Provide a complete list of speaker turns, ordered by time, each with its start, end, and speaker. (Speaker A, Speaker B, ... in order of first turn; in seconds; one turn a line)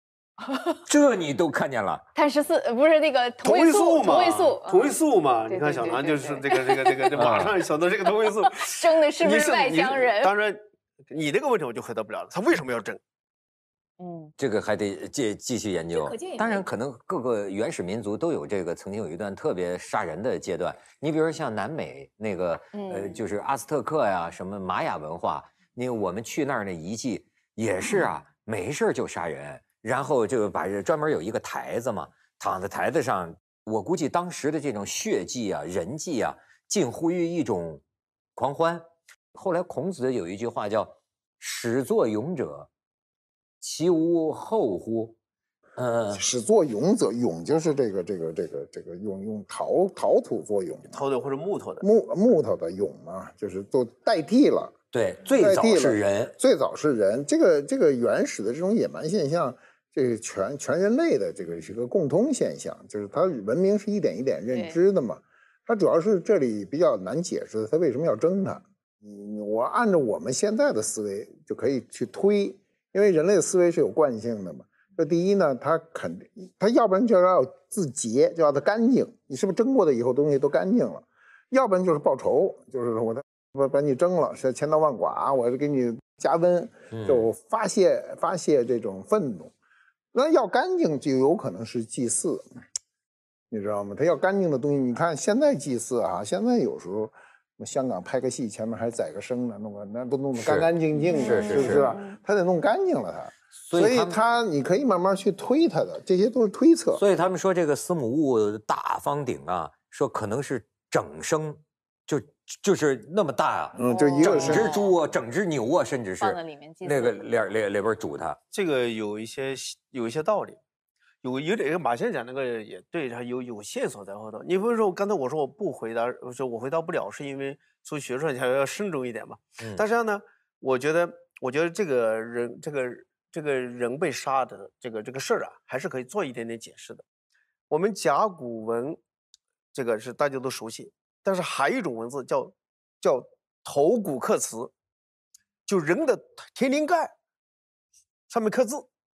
Speaker A: 0.4-0.8
Speaker B: 0.9-2.0
Speaker A: 2.1-5.0
Speaker C: 3.4-13.0
Speaker A: 5.5-7.5
Speaker B: 7.1-7.5
Speaker A: 8.2-10.3
Speaker A: 14.0-14.3
Speaker B: 14.4-37.8
Speaker A: 15.9-16.6
Speaker A: 22.7-23.2
Speaker B: 38.4-42.7
Speaker B: 43.6-45.1
Speaker B: 45.8-46.2
Speaker D: 46.1-51.0
Speaker C: 50.9-51.8
Speaker D: 51.8-54.7
Speaker B: 54.9-56.3
Speaker D: 55.3-89.5
Speaker A: 64.5-64.8
Speaker B: 86.9-87.3
Speaker D: 90.1-92.5
Speaker D: 93.5-107.0
Speaker B: 100.4-101.9
Speaker A: 100.9-102.2
Speaker B: 103.6-104.2
Speaker B: 106.9-118.4
Speaker D: 113.8-114.7
Speaker A: 113.8-114.9
Speaker A: 116.2-117.2
Speaker C: 118.5-120.6
Speaker C: 121.2-137.0
Speaker B: 129.6-129.8
Speaker C: 137.7-139.0
Speaker C: 139.7-144.7
Speaker C: 145.7-147.1
Speaker C: 148.3-148.8